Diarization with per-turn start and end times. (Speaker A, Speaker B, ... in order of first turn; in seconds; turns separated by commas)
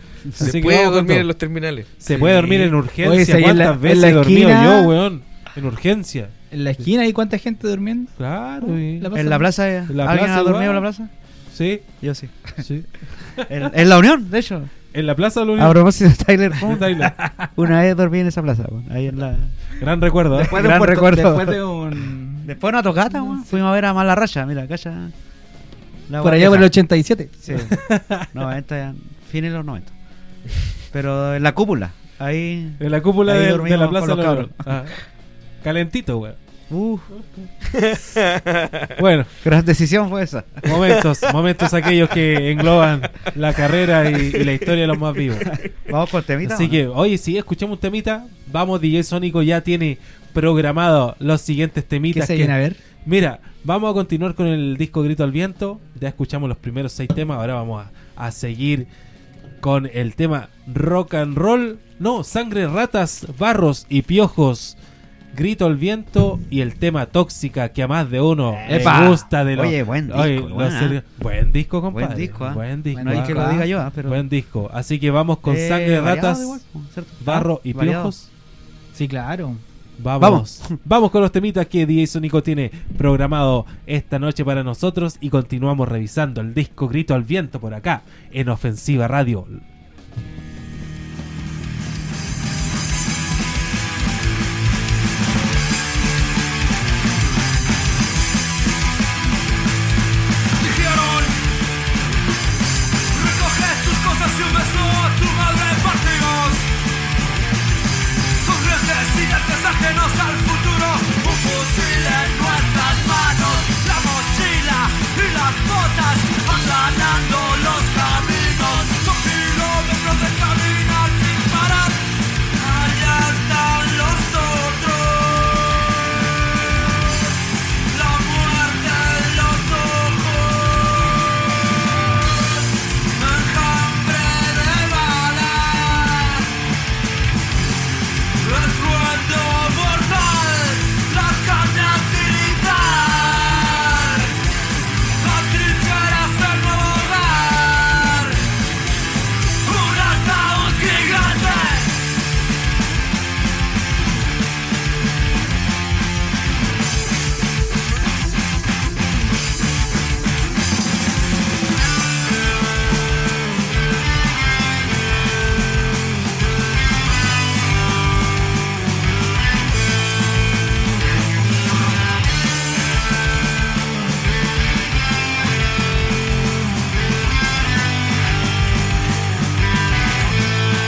Speaker A: 0.4-1.3, Speaker B: 0.4-2.4, Speaker A: 2.0-6.3, Speaker C: 3.0-4.9, Speaker C: 6.5-8.1, Speaker A: 8.2-9.1, Speaker C: 8.6-9.5, Speaker D: 9.1-11.1, Speaker A: 9.9-10.8, Speaker A: 11.5-11.9, Speaker D: 12.0-12.6, Speaker A: 12.6-13.7, Speaker D: 13.4-14.7, Speaker A: 14.9-15.8, Speaker D: 15.6-19.6, Speaker A: 16.5-17.5, Speaker A: 19.8-20.6, Speaker C: 20.3-22.5, Speaker D: 20.4-21.6, Speaker D: 22.4-25.1, Speaker C: 23.1-23.6, Speaker D: 26.1-26.7, Speaker C: 26.2-27.4, Speaker D: 27.4-27.8, Speaker A: 27.7-28.3, Speaker D: 28.3-29.9, Speaker D: 30.9-34.7, Speaker A: 32.8-35.0, Speaker A: 35.6-36.4, Speaker D: 36.7-37.1, Speaker B: 37.8-38.8, Speaker A: 39.0-39.3, Speaker D: 39.4-40.7, Speaker A: 40.6-45.5, Speaker D: 45.5-46.8, Speaker A: 46.4-58.9, Speaker C: 52.1-52.8, Speaker A: 59.6-64.8, Speaker A: 65.3-73.5, Speaker D: 68.6-71.0, Speaker C: 68.7-69.2, Speaker D: 71.9-74.2, Speaker C: 72.9-73.7, Speaker A: 74.0-76.6, Speaker D: 75.4-78.1, Speaker A: 77.2-78.3, Speaker C: 78.9-79.6, Speaker A: 80.0-89.6, Speaker D: 80.2-80.8, Speaker E: 100.6-101.4, Speaker E: 103.1-106.7, Speaker E: 108.4-127.3, Speaker E: 127.9-136.5, Speaker E: 138.4-144.4, Speaker E: 145.2-148.4, Speaker E: 149.6-152.0